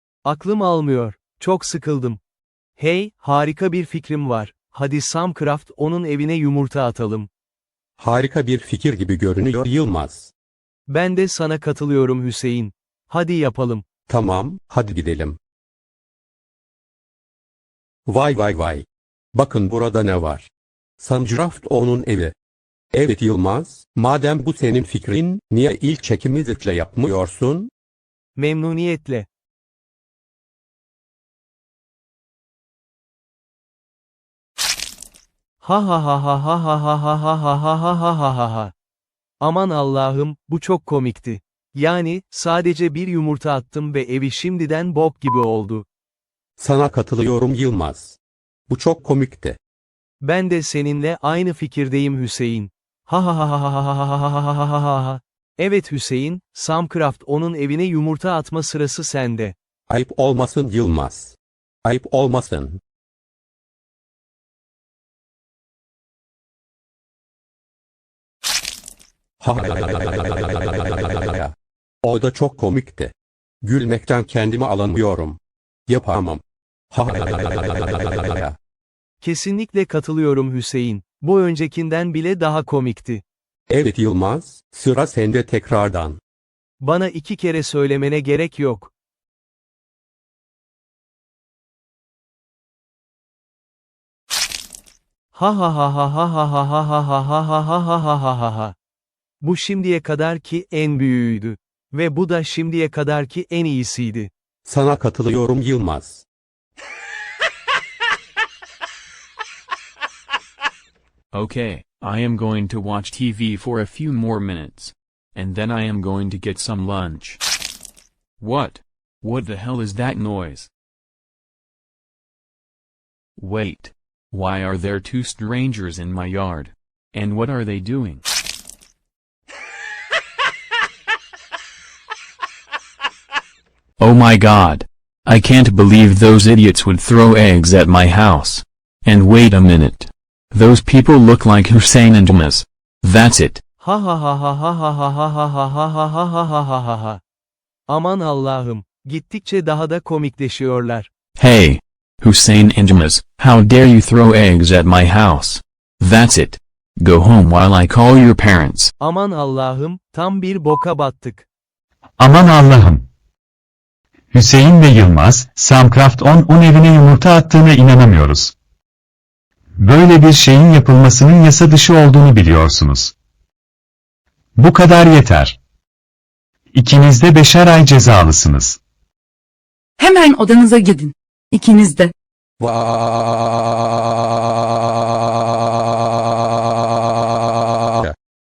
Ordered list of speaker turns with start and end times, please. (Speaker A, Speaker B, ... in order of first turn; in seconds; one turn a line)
Speaker A: 0.2-2.2
Speaker A: 2.8-7.3
Speaker B: 8.0-10.3
Speaker A: 10.9-13.8
Speaker B: 14.1-15.4
Speaker B: 18.1-22.3
Speaker B: 22.9-27.7
Speaker A: 28.4-29.3
Speaker A: 35.6-38.7
Speaker A: 39.4-45.9
Speaker B: 46.6-49.6
Speaker A: 50.2-59.5
Speaker B: 59.9-62.8
Speaker B: 69.4-78.5
Speaker A: 79.2-83.2
Speaker B: 83.7-86.2
Speaker A: 86.8-88.9
Speaker A: 95.3-98.8
Speaker A: 99.4-104.3
Speaker B: 104.7-106.2
Speaker C: 111.3-117.4
Speaker C: 118.4-120.7
Speaker C: 123.4-128.2
Speaker C: 134.0-143.6
Speaker A: 143.8-147.2
Speaker A: 147.9-151.1
Speaker C: 151.4-158.9
Speaker A: 159.0-161.5
Speaker D: 162.2-163.1
Speaker D: 164.3-168.5
Speaker D: 169.8-173.1
Speaker D: 174.6-175.6
Speaker D: 176.7-178.8
Speaker E: 180.0-182.1
Speaker B: 182.6-183.6